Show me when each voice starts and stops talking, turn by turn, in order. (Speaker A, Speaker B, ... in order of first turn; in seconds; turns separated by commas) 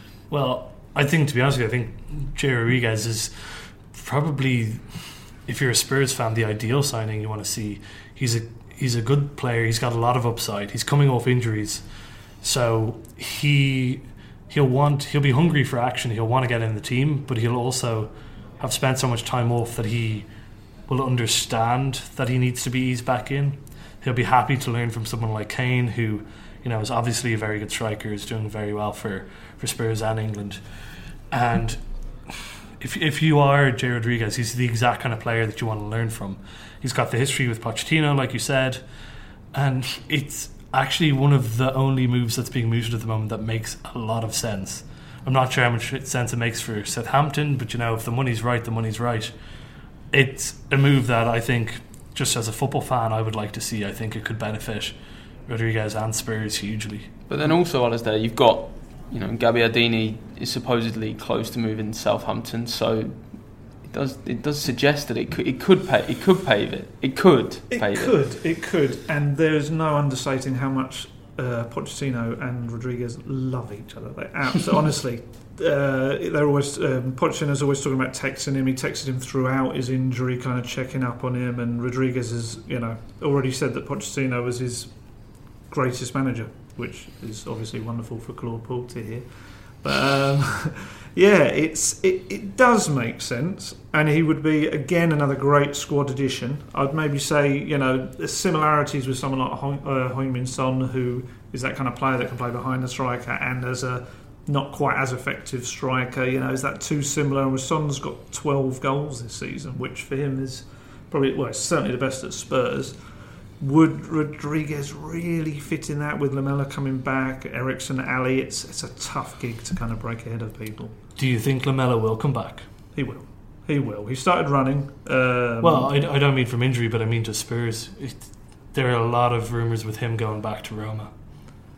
Speaker A: 0.3-20.3, Speaker A: 20.9-38.8, Speaker A: 39.5-49.3, Speaker A: 50.1-57.1, Speaker B: 57.3-68.1, Speaker C: 67.7-113.0, Speaker C: 113.6-121.0, Speaker A: 121.2-122.7, Speaker C: 123.0-125.9, Speaker A: 125.6-131.1